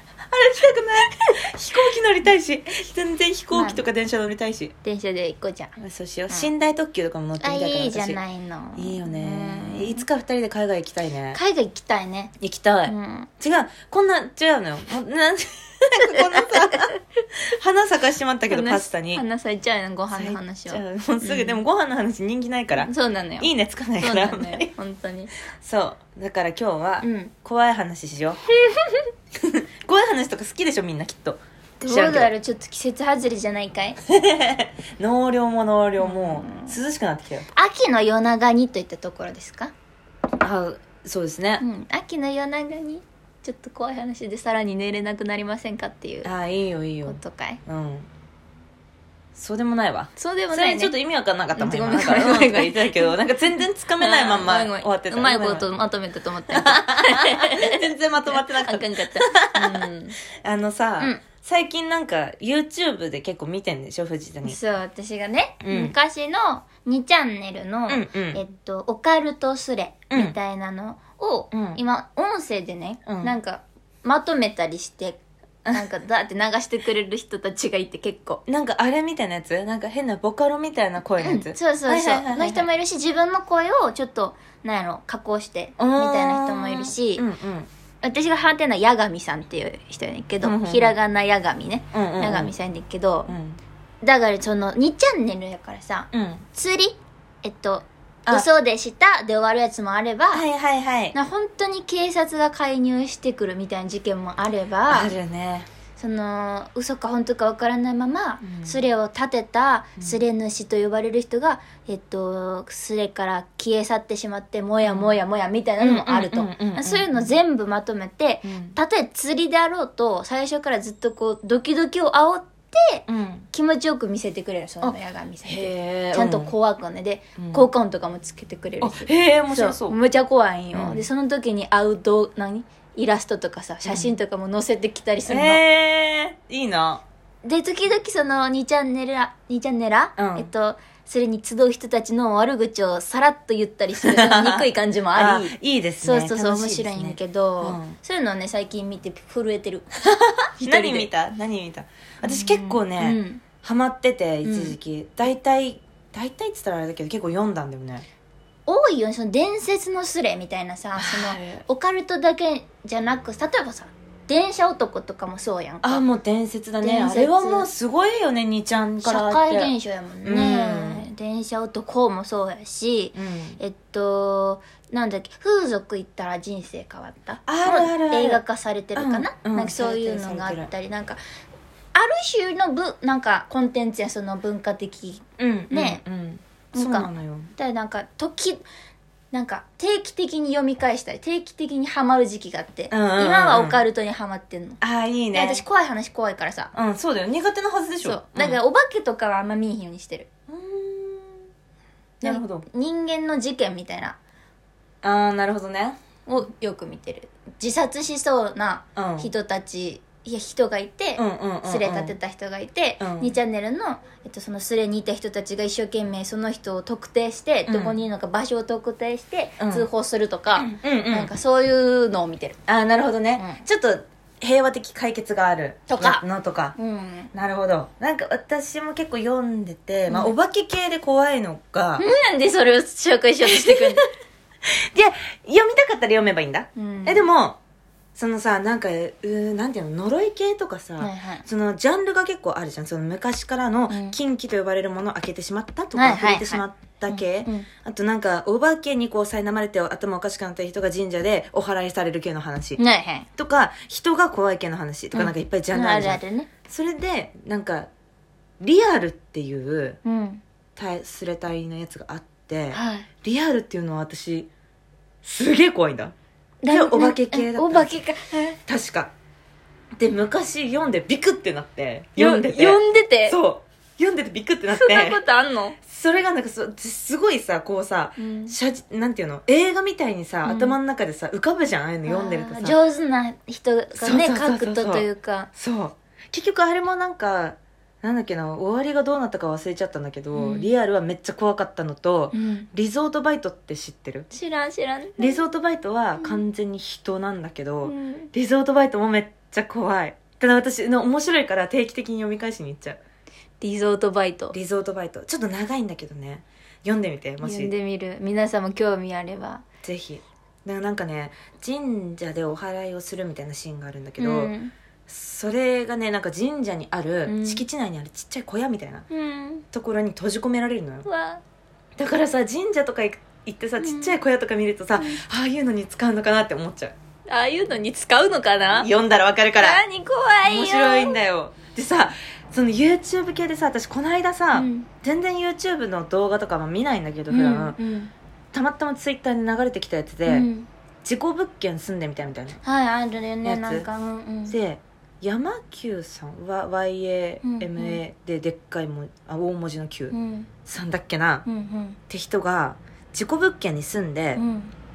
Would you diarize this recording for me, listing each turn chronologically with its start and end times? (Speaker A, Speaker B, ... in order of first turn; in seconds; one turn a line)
Speaker A: 0.3-4.7
Speaker B: 3.5-3.8
Speaker B: 4.8-5.7
Speaker A: 5.8-8.2
Speaker B: 7.4-10.0
Speaker A: 8.7-11.4
Speaker B: 11.3-12.3
Speaker A: 12.4-19.2
Speaker B: 12.9-13.3
Speaker B: 16.1-16.8
Speaker B: 18.5-21.6
Speaker A: 20.1-24.7
Speaker B: 22.8-25.3
Speaker A: 25.6-28.4
Speaker B: 27.0-27.3
Speaker B: 28.6-29.1
Speaker A: 29.4-32.3
Speaker B: 31.8-34.0
Speaker A: 34.1-37.5
Speaker B: 36.0-36.8
Speaker B: 37.5-39.7
Speaker A: 40.4-41.6
Speaker B: 41.6-46.3
Speaker A: 46.2-48.1
Speaker B: 47.0-47.6
Speaker A: 49.3-55.7
Speaker B: 50.2-50.9
Speaker B: 51.5-53.1
Speaker B: 54.0-60.2
Speaker A: 56.5-59.9
Speaker A: 60.4-64.6
Speaker B: 64.4-75.2
Speaker A: 65.6-65.9
Speaker A: 67.9-68.4
Speaker A: 71.5-71.8
Speaker A: 73.0-73.3
Speaker B: 75.7-78.4
Speaker A: 78.5-82.7
Speaker B: 81.2-87.2
Speaker A: 85.8-87.7
Speaker B: 88.0-93.3
Speaker A: 90.4-90.9
Speaker A: 91.9-92.5
Speaker A: 93.3-93.6
Speaker B: 94.0-100.4
Speaker A: 96.1-96.4
Speaker A: 100.3-101.2
Speaker B: 101.1-105.1
Speaker A: 104.9-105.7
Speaker B: 106.0-135.6
Speaker A: 108.4-108.8
Speaker A: 114.8-115.2
Speaker A: 115.8-117.4
Speaker A: 118.4-118.8
Speaker A: 123.1-123.5
Speaker A: 124.8-126.5
Speaker A: 127.4-127.7
Speaker A: 128.8-130.0
Speaker A: 130.7-131.0
Speaker A: 133.8-134.1
Speaker A: 135.3-137.0
Speaker B: 137.4-149.9
Speaker A: 140.2-140.5
Speaker A: 144.0-147.9
Speaker A: 150.6-158.0
Speaker B: 150.6-151.1
Speaker B: 152.2-153.4
Speaker B: 154.4-154.8
Speaker B: 158.7-166.0
Speaker A: 161.0-161.6
Speaker A: 165.8-169.7
Speaker B: 166.8-167.7
Speaker B: 169.0-181.2
Speaker A: 170.2-171.1
Speaker A: 173.1-173.6
Speaker A: 177.5-178.4
Speaker A: 178.9-180.7
Speaker B: 181.9-186.0
Speaker A: 185.4-187.5
Speaker B: 186.7-188.6
Speaker B: 189.3-194.8
Speaker A: 192.9-193.8
Speaker A: 194.8-195.6
Speaker B: 195.3-196.7
Speaker A: 196.7-198.6
Speaker B: 198.0-200.3
Speaker A: 200.5-201.5
Speaker A: 202.2-202.7
Speaker B: 202.2-204.2
Speaker A: 205.0-206.0
Speaker B: 206.3-222.6
Speaker A: 208.9-209.3
Speaker A: 211.2-212.1
Speaker A: 213.0-213.3
Speaker A: 217.7-218.0
Speaker A: 219.6-219.9
Speaker A: 220.6-221.3
Speaker A: 222.7-226.8
Speaker B: 225.9-226.2
Speaker B: 226.8-227.3
Speaker A: 227.3-232.0
Speaker B: 232.0-234.0
Speaker A: 233.4-234.0
Speaker A: 234.7-237.6
Speaker B: 236.8-237.3
Speaker A: 238.1-252.8
Speaker B: 241.0-241.4
Speaker B: 243.9-244.2
Speaker B: 245.9-247.7
Speaker B: 252.8-253.3
Speaker A: 253.4-257.9
Speaker B: 255.1-256.5
Speaker A: 258.6-260.0
Speaker B: 260.0-260.4
Speaker A: 260.8-264.5
Speaker B: 262.7-263.1
Speaker A: 265.2-266.1
Speaker B: 266.6-268.6
Speaker A: 266.7-267.9
Speaker A: 268.7-269.1
Speaker A: 270.0-275.2
Speaker B: 272.2-273.4
Speaker B: 274.7-275.8
Speaker A: 275.8-282.8
Speaker B: 278.2-278.5
Speaker B: 280.4-280.8
Speaker B: 282.0-285.5
Speaker A: 284.0-294.3
Speaker B: 290.3-290.7
Speaker B: 292.3-292.7
Speaker B: 294.3-295.4
Speaker A: 295.2-303.0
Speaker B: 296.2-296.4
Speaker B: 297.8-298.3
Speaker B: 303.6-304.5
Speaker A: 304.5-307.7
Speaker B: 307.4-309.6
Speaker A: 309.8-314.5
Speaker B: 314.2-314.7
Speaker A: 315.1-319.1
Speaker B: 317.2-317.6
Speaker B: 319.1-319.6
Speaker A: 319.7-321.1
Speaker B: 321.0-321.4
Speaker A: 322.0-326.9
Speaker B: 323.8-324.2
Speaker B: 327.3-328.9
Speaker A: 328.7-329.8
Speaker B: 329.6-331.2
Speaker A: 330.4-337.8
Speaker B: 334.5-334.9
Speaker B: 337.3-338.1
Speaker A: 338.5-340.5
Speaker B: 340.2-340.7
Speaker A: 341.0-342.6
Speaker B: 342.6-344.6
Speaker A: 343.4-343.9
Speaker A: 344.4-351.4
Speaker B: 347.4-348.0
Speaker B: 350.1-350.5
Speaker B: 351.4-352.0
Speaker A: 352.1-354.4
Speaker B: 354.4-354.7